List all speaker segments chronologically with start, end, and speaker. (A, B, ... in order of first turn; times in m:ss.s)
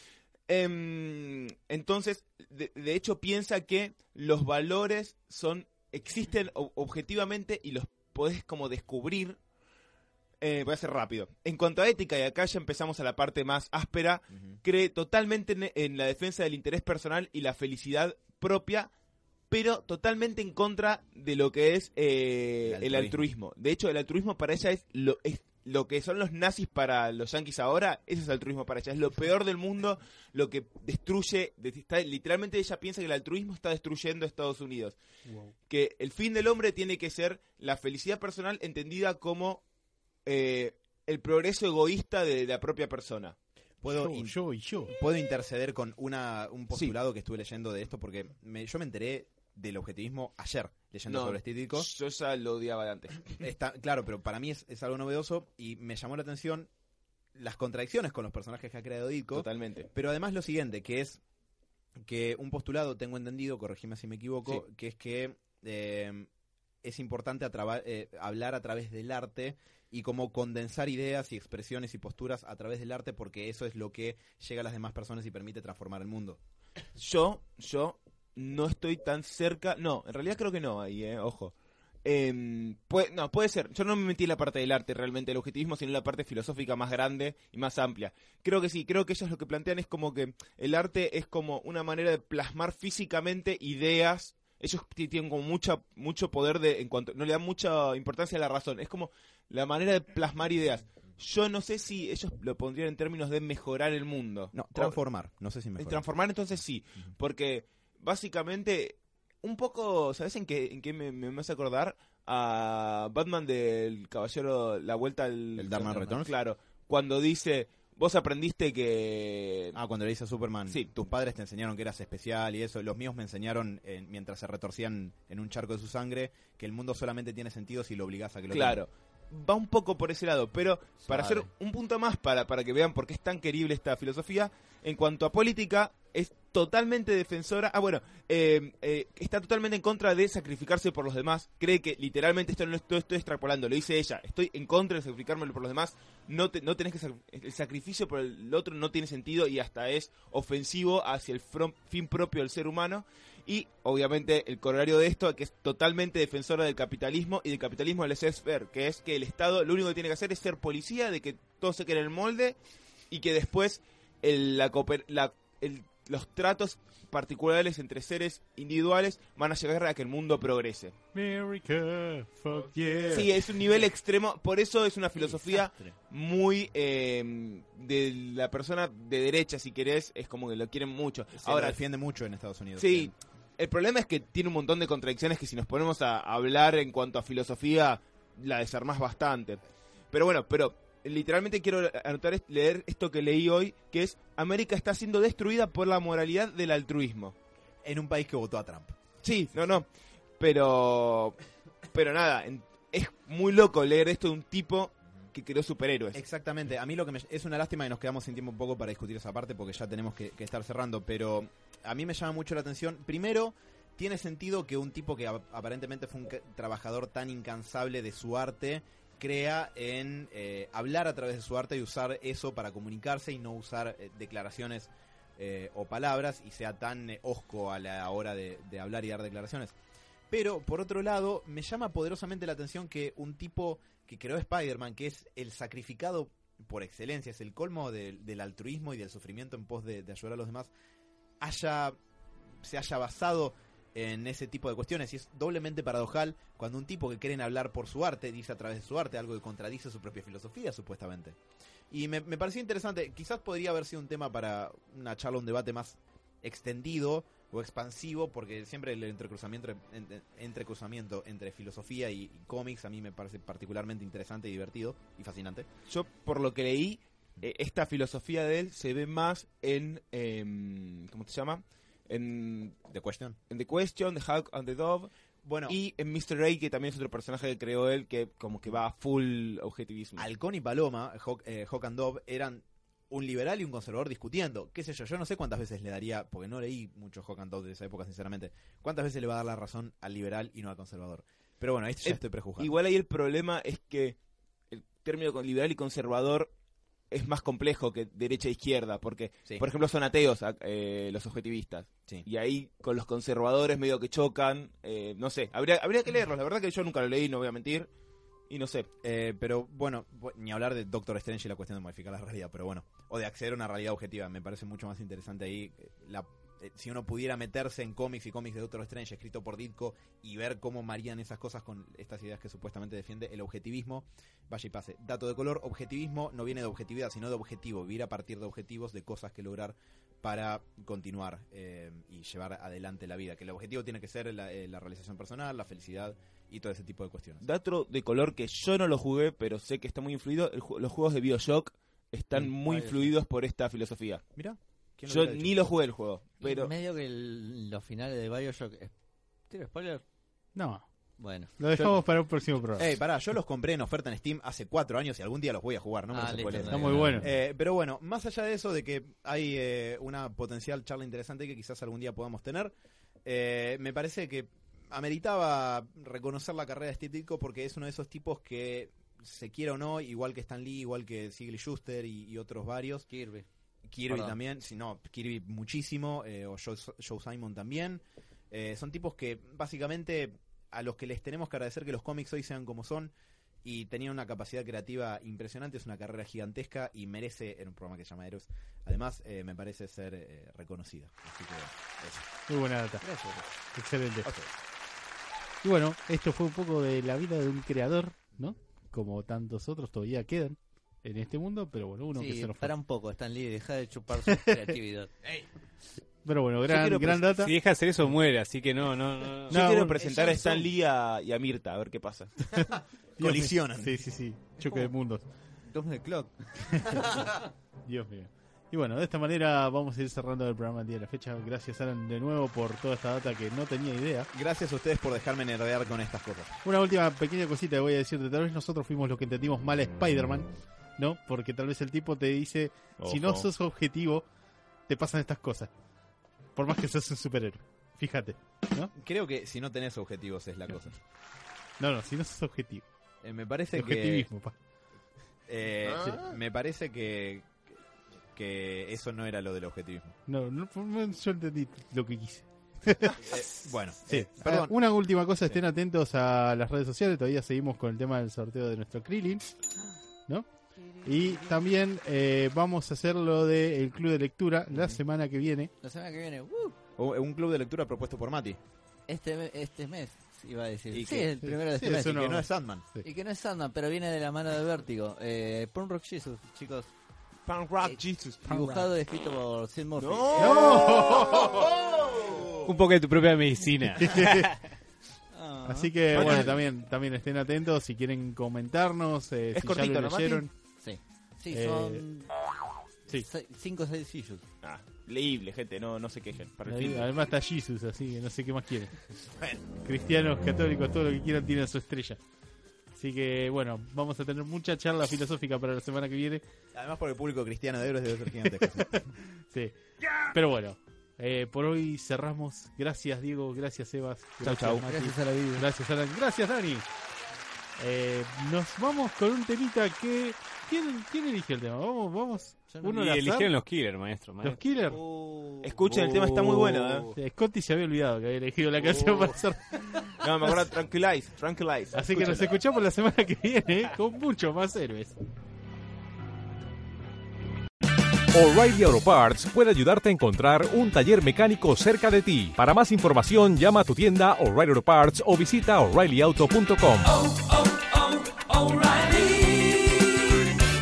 0:00.5-0:09.4 A
0:10.4-0:18.9 A
0:19.5-0:35.0 A
0:22.6-0:23.2 B
0:35.3-0:35.5 C
0:35.7-0:39.6 A
0:40.3-0:43.4 A
0:43.8-0:51.9 B
0:43.9-0:44.9 C
0:51.1-0:53.4 A
0:53.4-0:56.7 B
0:57.4-1:01.2 B
0:59.3-0:59.9 A
1:02.0-1:06.3 B
1:06.8-1:16.4 B
1:17.0-1:21.5 A
1:22.0-1:45.0 A
1:44.5-1:46.0 B
1:45.8-1:59.8 A
1:55.6-1:56.3 B
1:59.7-2:08.8 B
2:08.5-2:42.6 A
2:11.1-2:11.5 D
2:43.1-2:50.9 A
2:51.1-2:53.6 C
2:53.1-3:01.8 A
2:55.2-2:56.0 D
3:01.4-3:03.1 B
3:02.8-3:09.6 A
3:10.1-3:17.3 A
3:17.8-3:19.0 B
3:19.2-3:19.9 A
3:20.4-3:21.4 A
3:21.9-3:26.2 A
3:26.1-3:49.8 B
3:50.3-4:00.7 B
4:01.4-4:02.0 B
4:02.6-4:11.4 B
4:11.9-4:25.7 B
4:25.9-4:32.8 A
4:32.9-4:33.4 B
4:33.5-4:35.1 A
4:35.4-4:35.8 B
4:35.7-4:40.3 A
4:40.2-4:52.7 B
4:52.0-4:54.2 A
4:54.7-4:56.5 A
4:57.1-5:07.9 A
5:08.5-5:08.9 A
5:09.0-5:37.4 B
5:37.4-5:44.2 A
5:42.6-5:43.1 D
5:44.4-5:45.5 B
5:45.1-5:46.7 A
5:46.4-5:48.9 D
5:49.5-5:50.0 D
5:50.6-5:50.9 C
5:51.2-5:51.6 D
5:51.6-5:52.9 C
5:52.8-6:02.7 B
5:56.1-5:57.2 D
5:56.7-5:57.3 C
5:56.8-5:57.1 E
6:03.2-6:13.1 B
6:13.1-6:13.5 D
6:13.9-6:23.1 B
6:14.1-6:14.4 D
6:23.6-6:32.3 B
6:32.5-6:33.0 C
6:33.0-6:33.5 D
6:33.7-6:34.3 C
6:34.2-6:34.5 B
6:35.6-6:42.7 C
6:42.2-6:45.1 D
6:45.2-6:45.5 B
6:46.2-6:47.5 C
6:46.7-6:47.2 A
6:47.0-6:49.6 E
6:49.5-6:52.4 A
6:49.5-6:50.1 C
6:50.0-6:50.6 B
6:52.5-6:55.2 C
6:53.2-6:54.0 B
6:54.6-6:54.9 D
6:55.7-6:57.3 D
6:57.8-7:04.3 C
7:04.3-7:06.6 B
7:06.6-7:14.3 C
7:13.0-7:13.5 A
7:14.9-7:15.7 C
7:16.6-7:18.9 C
7:19.0-7:21.0 B
7:21.8-7:22.8 C
7:23.2-7:24.3 B
7:23.8-7:24.6 C
7:25.5-7:27.6 B
7:25.8-7:26.4 A
7:28.3-7:30.2 B
7:30.3-7:33.3 C
7:33.2-7:34.8 B
7:34.1-7:39.5 C
7:41.0-7:41.5 D
7:41.0-7:45.7 C
7:45.8-7:46.8 D
7:47.0-7:48.6 B
7:49.1-7:52.4 D
7:50.9-7:51.3 A
7:51.4-7:52.4 C
7:51.8-7:52.8 B
7:53.0-7:56.9 D
7:57.5-7:58.4 A
7:57.8-8:01.0 D
7:58.5-7:58.9 C
8:00.0-8:01.6 A
8:00.4-8:01.5 C
8:00.9-8:02.7 B
8:02.6-8:04.6 E
8:04.0-8:04.5 C
8:05.3-8:06.4 D
8:05.7-8:10.5 C
8:06.1-8:06.6 A
8:09.5-8:10.5 A
8:10.8-8:12.3 D
8:11.5-8:12.0 C
8:13.1-8:14.4 D
8:14.6-8:17.1 A
8:16.7-8:18.9 C
8:19.2-8:19.6 B
8:19.8-8:22.2 C
8:23.0-8:26.4 C
8:26.7-8:29.1 B
8:30.3-8:36.9 C
8:34.4-8:34.8 A
8:34.9-8:35.7 D
8:37.8-8:43.5 C
8:42.9-8:44.6 E
8:44.4-8:45.0 C
8:44.9-8:45.8 D
8:45.6-8:47.1 A
8:45.9-8:47.0 E
8:47.2-8:50.6 C
8:48.8-8:49.4 A
8:50.2-8:52.5 A
8:52.0-8:55.2 C
8:58.3-9:10.4 F